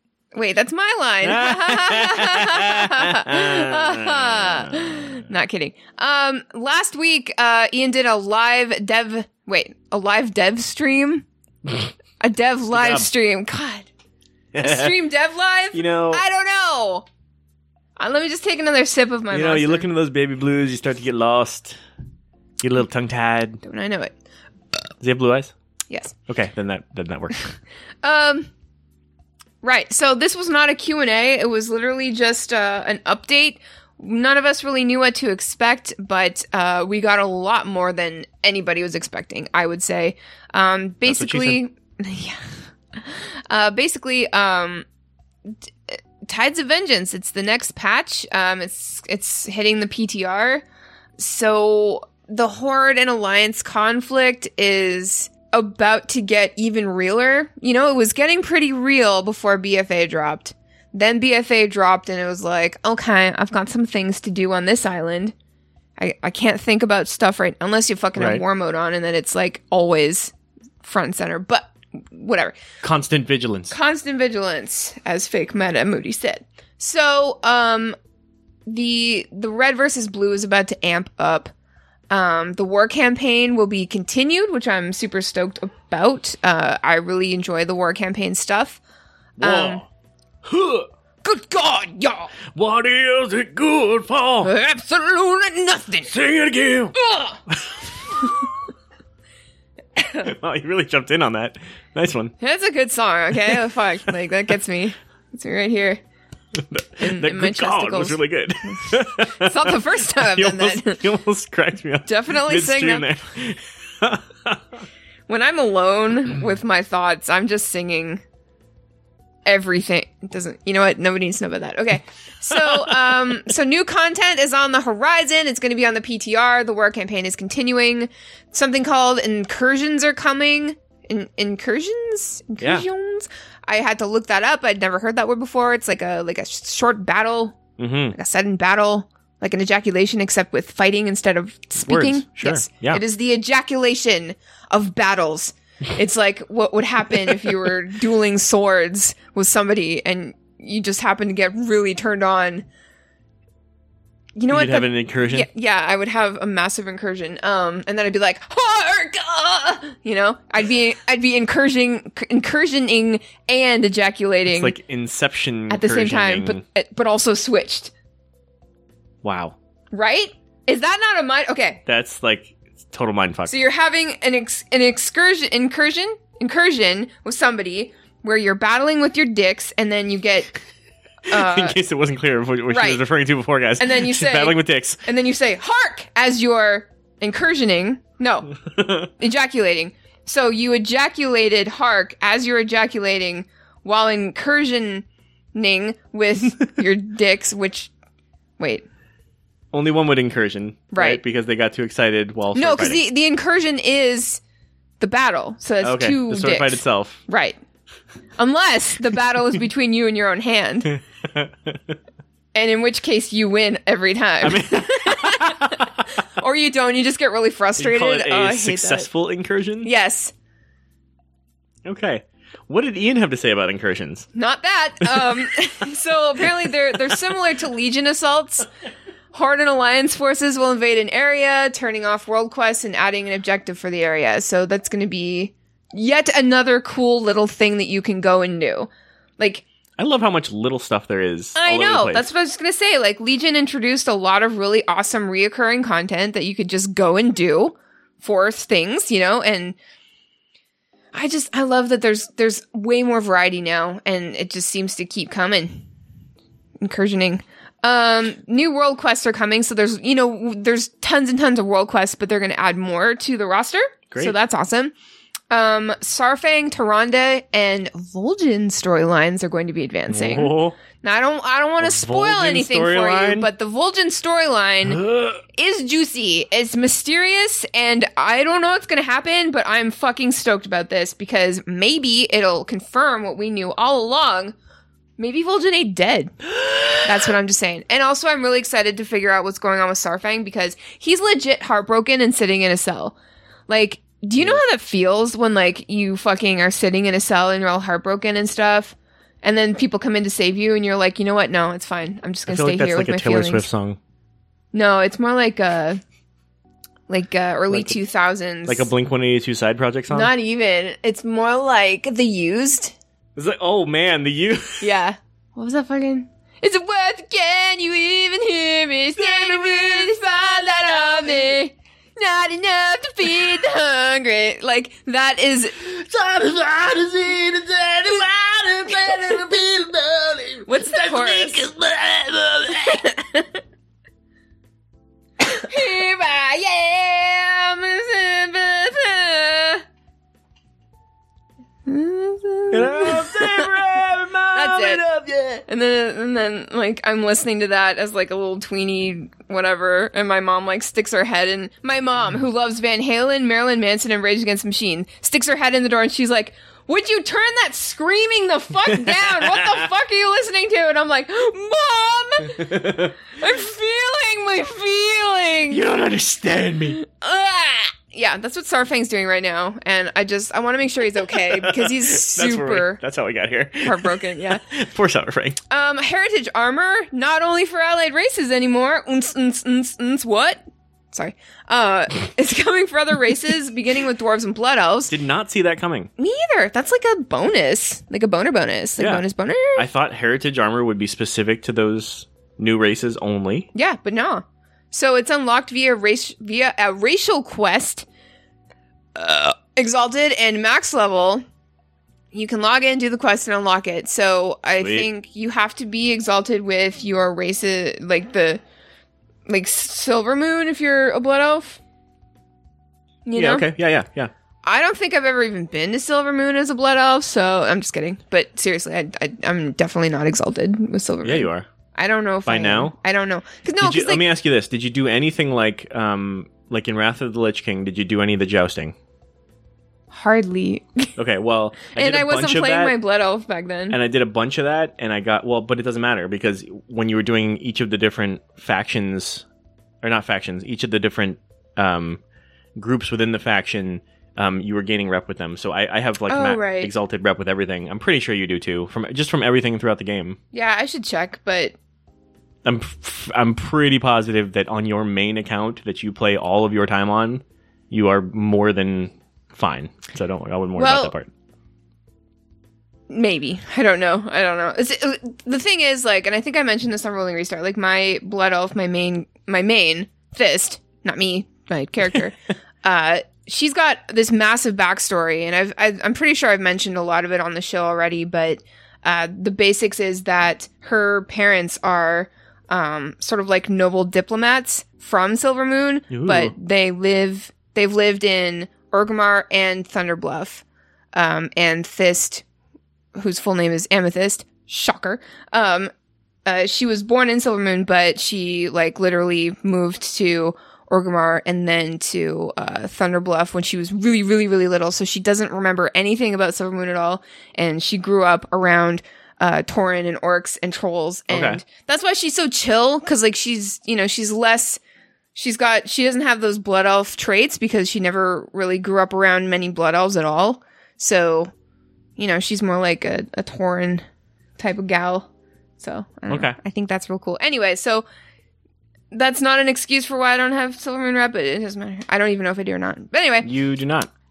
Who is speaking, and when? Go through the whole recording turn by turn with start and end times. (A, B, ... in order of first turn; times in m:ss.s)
0:00.3-0:11.2 A
0:01.2-0:05.1 B
0:12.2-0:13.9 A
0:12.7-0:13.1 B
0:14.5-0:15.0 B
0:14.6-0:17.0 A
0:15.7-0:16.2 B
0:18.0-0:19.9 A
0:19.3-0:21.8 B
0:22.6-0:23.6 B
0:23.6-0:24.1 A
0:25.0-0:25.5 B
0:25.9-0:26.1 A
0:26.3-0:27.5 B
0:28.0-0:28.5 A
0:29.6-0:44.8 A
0:41.0-0:41.6 B
0:45.9-0:50.6 A
0:51.2-1:05.3 A
1:06.0-1:10.3 A
1:08.2-1:08.4 B
1:10.8-1:12.6 A
1:12.8-1:13.7 B
1:13.7-1:18.0 A
1:18.7-1:21.5 A
1:22.1-1:28.8 A
1:29.4-1:29.9 B
1:29.4-1:29.8 A
1:30.4-1:30.9 B
1:31.2-1:32.3 A
1:32.5-1:34.5 B
1:34.4-1:36.1 A
1:36.1-1:37.0 B
1:36.9-1:37.4 A
1:37.5-1:38.2 B
1:40.0-1:40.3 A
1:40.2-1:42.3 B
1:42.4-1:46.0 A
1:43.3-1:43.6 B
1:46.6-1:54.6 B
1:47.0-1:51.0 A
1:52.0-1:53.1 A
1:55.3-1:58.2 A
1:59.4-2:17.6 A
2:02.5-2:03.3 B
2:12.6-2:12.8 B
2:17.8-2:18.2 B
2:18.1-2:32.6 A
2:21.8-2:23.0 B
2:34.4-2:44.8 A
2:34.5-2:35.5 B
2:44.5-2:46.6 B
2:45.7-2:47.9 A
2:49.2-2:49.6 B
2:49.9-2:51.8 A
2:51.8-2:53.5 B
2:53.5-3:00.5 A
3:01.3-3:01.8 A
3:01.3-3:05.0 B
3:02.7-3:03.0 A
3:03.8-3:08.5 A
3:08.8-3:09.1 B
3:09.2-3:17.9 A
3:18.6-3:18.8 A
3:19.7-3:23.0 B
3:20.9-3:21.2 A
3:22.5-3:24.4 A
3:25.0-3:27.6 A
3:25.8-3:27.2 B
3:28.4-3:30.9 A
3:30.9-3:32.0 B
3:32.5-3:39.1 A
3:34.4-3:36.0 B
3:37.8-3:39.9 B
3:39.8-3:40.3 A
3:41.8-3:44.3 B
3:44.3-3:48.7 A
3:45.0-3:45.3 B
3:49.3-3:59.6 A
4:00.0-4:02.3 B
4:01.6-4:09.8 A
4:11.1-4:15.8 A
4:16.8-4:24.9 A
4:25.5-4:35.0 A
4:30.1-4:30.8 B
4:31.8-4:33.5 B
4:34.8-4:35.4 B
4:35.5-4:44.5 A
4:45.2-4:46.4 A
4:46.5-4:47.2 B
4:47.0-4:53.1 A
4:53.7-5:03.6 A
5:02.5-5:04.0 B
5:04.7-5:06.0 A
5:07.1-5:08.9 A
5:07.7-5:08.0 B
5:08.6-5:10.3 B
5:10.1-5:12.9 A
5:13.4-5:14.9 B
5:14.8-5:25.9 A
5:19.2-5:21.3 B
5:25.9-5:33.0 B
5:28.9-5:29.3 A
5:30.6-5:31.7 A
5:32.7-5:33.6 A
5:35.5-5:39.8 A
5:41.8-5:43.7 A
5:42.7-5:45.6 B
5:44.5-5:45.0 A
5:45.7-6:05.8 A
5:58.9-5:59.8 B
6:02.5-6:03.1 B
6:05.7-6:07.0 B
6:07.0-6:13.0 A
6:11.4-6:15.6 B
6:13.8-6:14.6 A
6:15.7-6:25.1 A
6:25.1-6:26.1 B
6:26.2-6:29.8 A
6:29.0-6:29.2 B
6:29.7-6:33.7 B
6:33.7-6:38.0 A
6:39.1-6:41.4 A
6:42.3-6:48.6 A
6:44.8-6:45.1 B
6:49.5-6:51.8 A
6:53.2-6:53.7 A
6:53.4-6:54.3 B
6:54.6-7:04.2 A
7:01.2-7:01.7 B
7:02.4-7:02.9 B
7:03.8-7:08.9 B
7:10.1-7:11.1 A
7:11.2-7:13.0 B
7:11.9-7:14.0 A
7:13.9-7:19.4 B
7:20.0-7:22.2 B
7:22.8-7:30.4 B
7:26.3-7:26.9 A
7:30.5-7:31.7 A
7:32.6-7:41.3 B
7:40.8-7:41.1 A
7:43.1-8:12.4 A
8:06.1-8:06.5 B
8:13.1-8:15.9 A
8:16.4-8:34.8 A
8:31.3-8:31.6 B
8:35.3-8:41.5 A
8:42.2-8:44.0 A
8:44.6-8:45.3 A
8:45.8-8:48.0 A
8:46.3-8:46.6 B
8:49.1-8:53.5 A
8:53.4-8:54.1 B